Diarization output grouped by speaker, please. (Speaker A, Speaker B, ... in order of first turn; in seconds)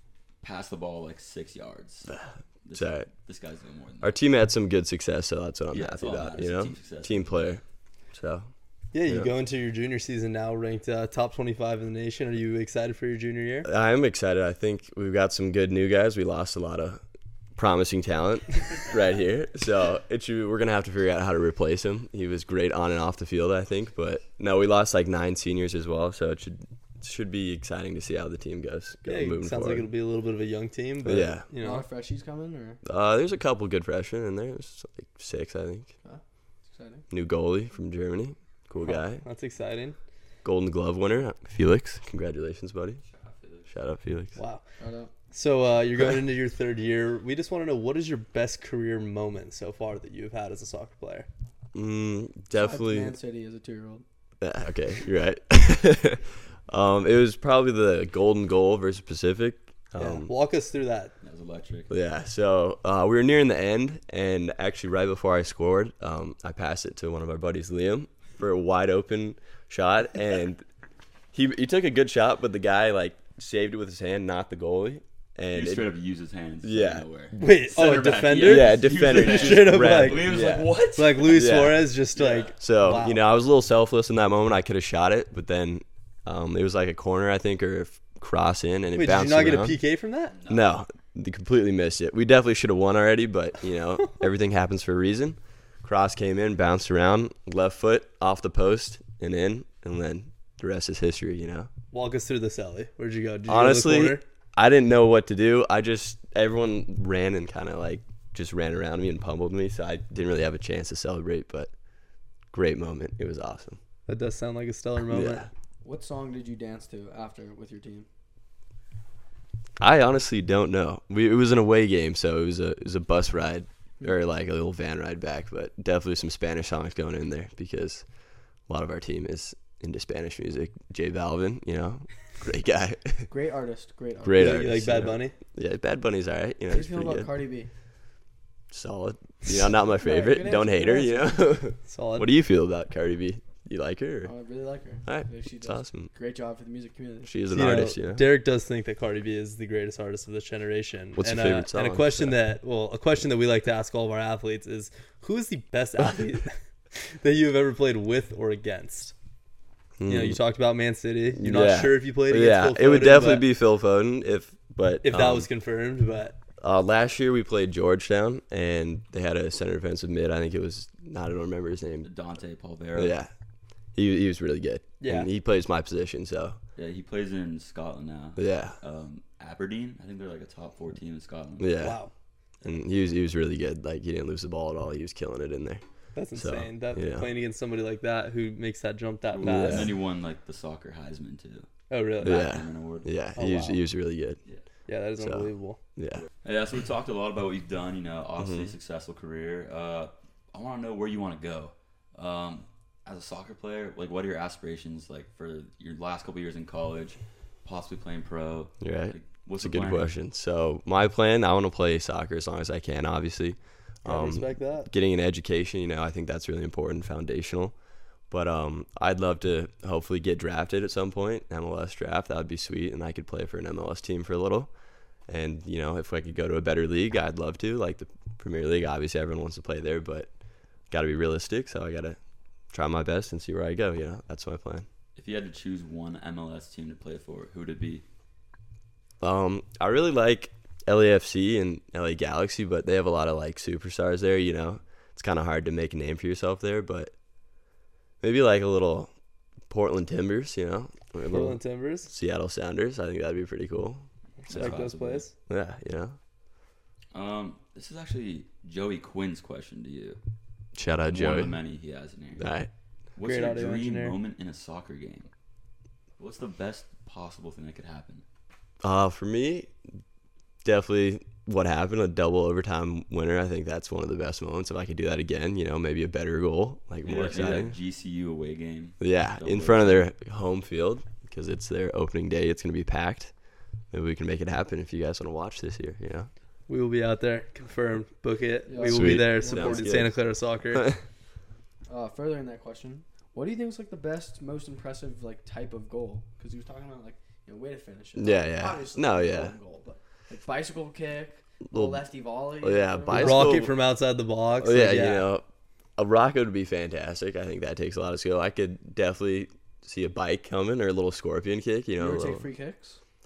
Speaker A: 0.4-2.1, 2.6-4.2, 5.7-7.6, 43.0-43.7, 61.2-61.9, 75.5-81.5, 82.1-82.5, 90.3-90.7, 172.0-173.2, 176.8-181.7, 189.3-193.1, 196.4-210.1, 235.2-238.0, 254.4-255.3, 257.1-260.2, 261.1-262.5, 263.1-265.3, 266.2-268.2, 277.0-280.1
Speaker B: 2.1-3.1, 4.0-7.6, 8.1-8.5, 9.1-9.3, 13.6-17.0, 17.6-29.9, 31.0-31.5, 32.8-35.9, 37.1-39.2, 40.4-43.0, 43.7-44.4, 51.7-53.1, 54.4-60.3, 61.9-70.6, 71.3-75.9, 76.6-77.0, 78.3-81.9, 82.6-89.8, 90.5-101.7, 103.5-111.7, 112.5-113.8, 115.1-115.5, 119.8-128.0, 128.7-133.3, 134.2-137.3, 138.7-144.3, 145.1-146.1, 147.2-148.2, 151.2-152.3, 160.0-160.4, 161.3-165.5, 166.6-172.1, 172.9-173.3, 173.9-176.6, 178.4-178.8, 181.6-182.0, 182.6-185.8, 186.3-187.3, 189.4-189.9, 192.2-194.4, 195.2-196.2, 198.4-198.7, 208.8-217.7, 218.3-224.7, 225.3-230.3, 230.9-232.2, 232.7-234.9, 239.2-247.1, 248.2-249.1, 249.7-254.8, 255.5-256.1, 260.7-261.6, 262.4-262.7, 268.8-269.7, 270.6-277.8, 279.0-283.3, 283.9-286.3, 288.8-290.1, 290.7-291.0, 298.1-299.6, 301.7-302.1, 302.6-303.8, 304.6-305.4, 306.0-312.5
Speaker C: 8.9-13.7, 29.0-31.9, 38.8-40.0, 44.4-44.6, 45.3-51.3, 60.0-61.1, 77.4-80.4, 80.9-83.2, 88.9-90.3, 101.9-104.2, 114.1-115.5, 134.3-135.3, 141.9-142.3, 147.5-159.1, 160.1-163.5, 165.0-166.4, 175.0-175.3, 181.8-182.1, 186.1-189.9, 191.9-192.4, 193.3-193.8, 194.9-195.8, 214.0-214.9, 251.3-252.1, 254.5-255.3, 263.2-264.1, 286.7-290.9, 303.1-305.3
Speaker D: 31.6-32.8, 36.0-37.0, 44.8-45.1, 52.5-54.0, 115.8-118.1, 133.3-134.7, 136.7-137.7, 139.9-141.5, 144.2-147.3, 288.7-289.9, 291.9-303.7, 312.0-313.0